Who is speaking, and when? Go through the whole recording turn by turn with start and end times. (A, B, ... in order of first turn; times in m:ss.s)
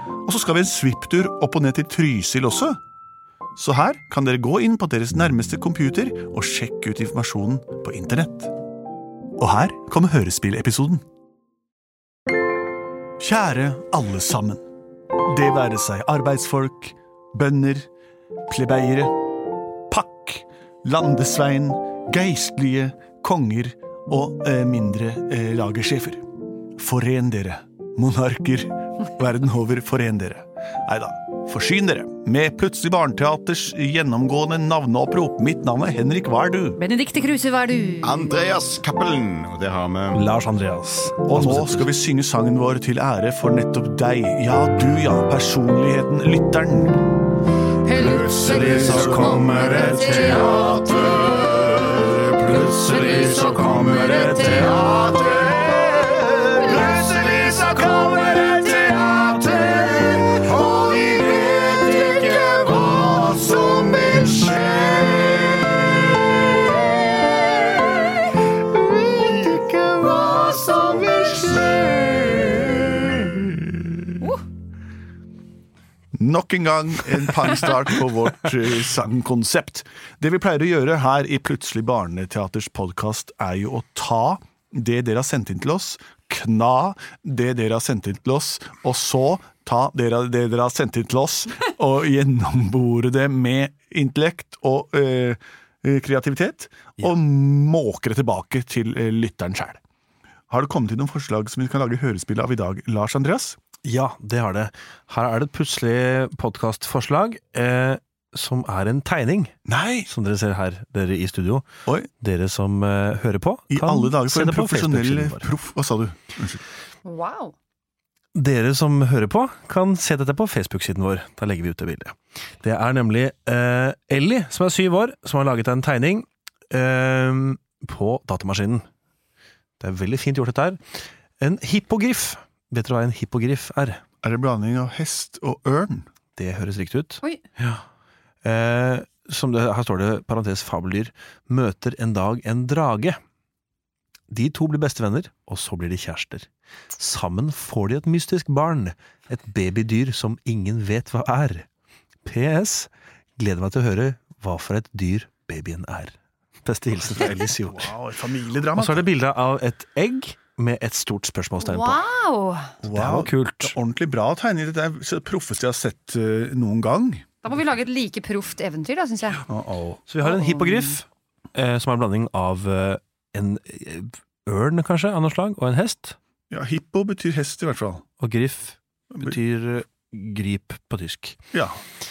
0:00.2-0:02.8 A
0:03.6-0:08.5 A
0:09.4-0:11.0 A
0:13.2-0:14.6 A
0:15.2-0:17.9 A
0:18.5-0:19.1 A
0:19.9-0:26.2 A
0:26.8-0:36.8 A
0:36.8-0:38.4 B
0:38.0-0:40.2 C
0:40.1-0:41.9 D
0:41.2-0:47.0 A
0:47.9-0:48.6 B
0:47.9-0:54.8 D
0:49.1-0:51.4 B
0:53.0-0:54.4 B
0:54.6-1:08.0 C
1:08.5-1:13.7 C
1:16.2-1:39.8 A
1:40.5-1:43.6 A
1:43.8-1:49.6 D
1:49.7-1:50.1 A
1:50.1-1:55.5 D
1:53.7-1:56.6 A
1:57.0-1:57.5 B
1:58.3-2:08.8 D
2:09.8-2:10.8 D
2:11.4-2:14.0 D
2:14.2-2:16.1 A
2:16.4-2:17.8 D
2:18.4-2:23.2 D
2:24.3-2:26.5 D
2:27.0-2:31.7 D
2:32.2-2:37.9 D
2:37.0-2:39.1 A
2:38.7-2:42.0 D
2:41.6-2:42.7 B
2:42.8-2:47.3 A
2:42.8-2:43.8 D
2:47.4-2:49.4 B
2:49.5-2:50.0 A
2:50.1-2:56.2 D
2:50.2-2:50.9 B
2:56.5-2:58.0 A
2:58.2-3:01.4 D
3:01.5-3:01.8 A